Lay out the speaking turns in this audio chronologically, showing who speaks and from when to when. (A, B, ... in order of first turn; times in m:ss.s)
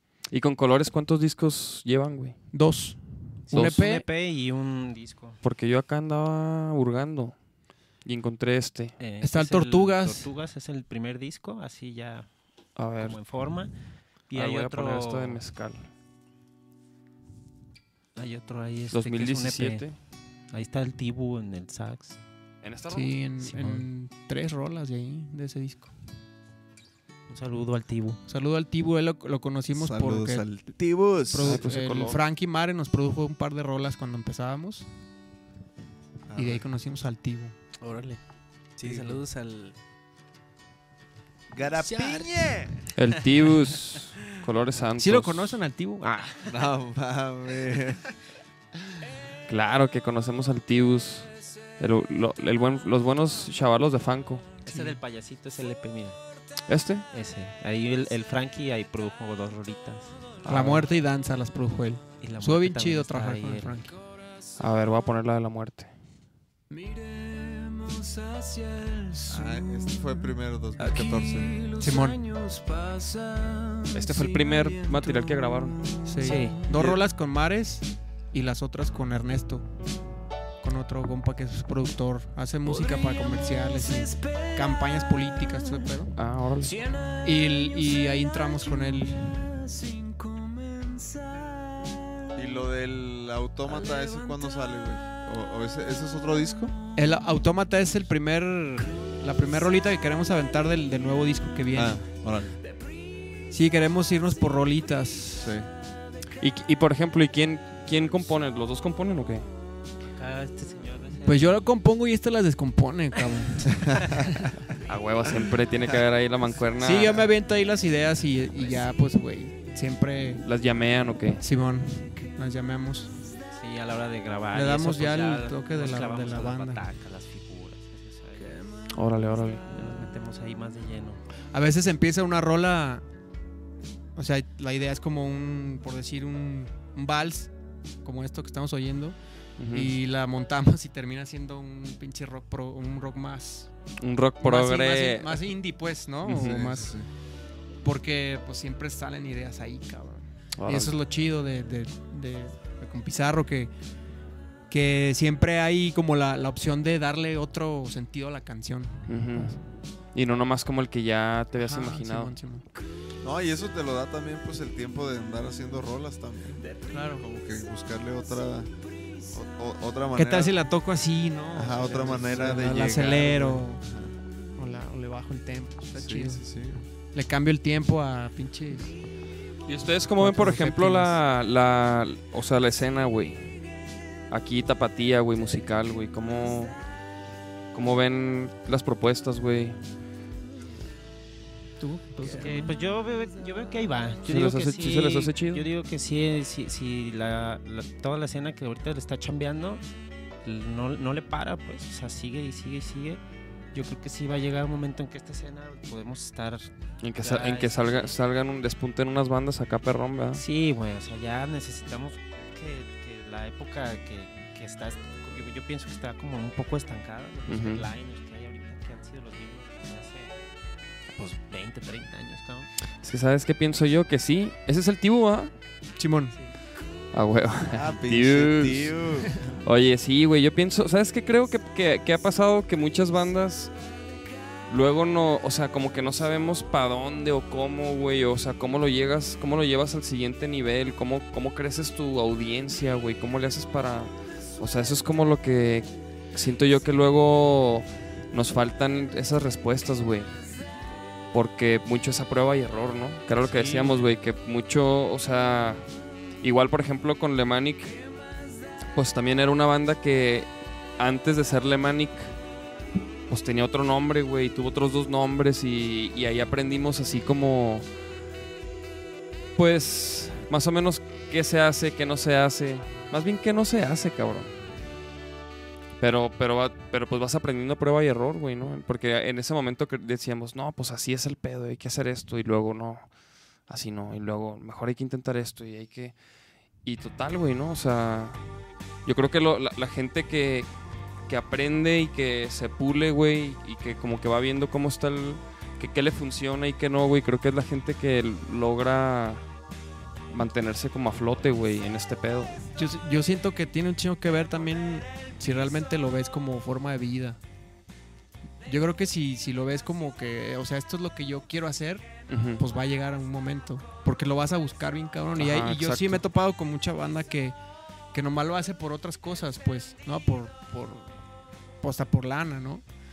0:00.3-0:02.4 A
0:02.5-0:03.0 B
0:03.5-0:04.1 B
0:03.5-0:05.4 C
0:05.4-0:07.4 A
0:08.0-0:09.0 A
0:09.0-0:12.3 C
0:09.2-0:10.3 B
0:12.8-0:13.2 A
0:13.0-0:13.7 C
0:14.3-0:15.4 C
0:14.3-0:15.9 A
0:18.1-0:19.9 C
0:18.9-0:20.0 A
0:20.5-0:22.2 C
0:22.6-0:23.7 A
0:22.9-0:25.9 B
0:27.3-0:28.2 C
0:28.3-0:30.5 B
0:29.8-0:31.6 D
0:31.3-0:34.9 B
0:31.4-0:32.2 A
0:36.3-0:36.7 D
0:36.4-0:37.5 B
0:37.8-0:38.2 E
0:38.8-0:39.8 E
0:38.8-0:39.2 D
0:41.5-0:42.8 D
0:41.6-0:42.6 E
0:42.9-0:45.6 A
0:45.0-0:46.5 B
0:46.5-0:48.0 D
0:49.5-0:54.5 A
0:54.6-0:56.2 C
0:54.7-0:55.0 B
0:56.7-0:57.1 A
0:57.1-1:00.1 C
1:00.4-1:00.9 A
1:00.5-1:03.9 B
1:02.2-1:03.9 C
1:04.6-1:05.9 A
1:06.7-1:09.6 B
1:09.3-1:11.6 D
1:10.8-1:11.2 A
1:11.6-1:13.5 B
1:13.9-1:15.9 A
1:16.0-1:19.6 B
1:16.2-1:16.6 C
1:16.7-1:17.0 D
1:20.6-1:26.1 B
1:26.2-1:26.8 A
1:27.2-1:30.0 B
1:32.4-1:36.8 D
1:37.0-1:42.0 B
1:41.7-1:42.6 D
1:43.5-1:45.6 B
1:45.4-1:45.7 D
1:46.4-1:49.5 A
1:50.2-1:51.6 C
1:51.2-1:54.6 B
1:53.7-1:54.2 D
1:54.8-1:57.3 A
1:56.8-2:00.4 B
2:00.4-2:01.4 A
2:01.4-2:03.1 B
2:03.6-2:08.6 C
2:04.5-2:06.8 B
2:08.4-2:08.9 B
2:08.9-2:09.7 A
2:09.7-2:11.2 C
2:11.5-2:13.0 B
2:14.2-2:17.5 B
2:18.0-2:19.2 B
2:19.6-2:20.0 A
2:19.7-2:23.7 B
2:24.0-2:25.4 A
2:24.4-2:27.0 B
2:26.2-2:27.1 D
2:26.3-2:26.6 A
2:27.8-2:33.7 B
2:30.6-2:31.0 A
2:34.7-2:39.6 B
2:39.1-2:39.6 A
2:40.1-2:42.4 A
2:41.6-2:42.6 B
2:43.2-2:46.6 D
2:46.9-2:47.2 B
2:47.2-2:48.7 D
2:49.3-2:50.6 D
2:50.2-2:53.8 B
2:51.5-2:54.1 D
2:54.6-2:56.5 B
2:56.0-2:56.8 D
2:57.1-2:59.0 B
2:59.6-3:03.5 A
3:00.2-3:01.2 B
3:04.3-3:06.8 A
3:07.7-3:09.8 A
3:11.8-3:12.7 B
3:12.2-3:19.8 C
3:14.2-3:15.6 A
3:20.4-3:23.2 C
3:23.7-3:28.2 C
3:27.0-3:30.4 A
3:30.3-3:40.4 C
3:37.5-3:37.9 A
3:41.1-3:42.7 C
3:43.0-3:45.5 A
3:46.0-3:46.3 B
3:47.1-3:49.0 A
3:47.7-3:49.4 D
3:49.6-3:53.7 A
3:54.7-4:10.4 A
4:11.3-4:15.8 A
4:13.4-4:14.1 C
4:16.4-4:18.0 A
4:18.9-4:22.3 A
4:23.3-4:27.9 A
4:29.6-4:34.5 A
4:36.0-4:43.1 A
4:43.7-4:46.1 A
4:46.8-4:48.4 A
4:49.0-4:50.7 A
4:51.3-4:59.4 A
5:00.3-5:02.6 A
5:02.8-5:07.4 B
5:08.6-5:17.6 B
5:12.3-5:12.6 A
5:15.4-5:16.2 A
5:18.1-5:21.1 B
5:21.8-5:22.8 B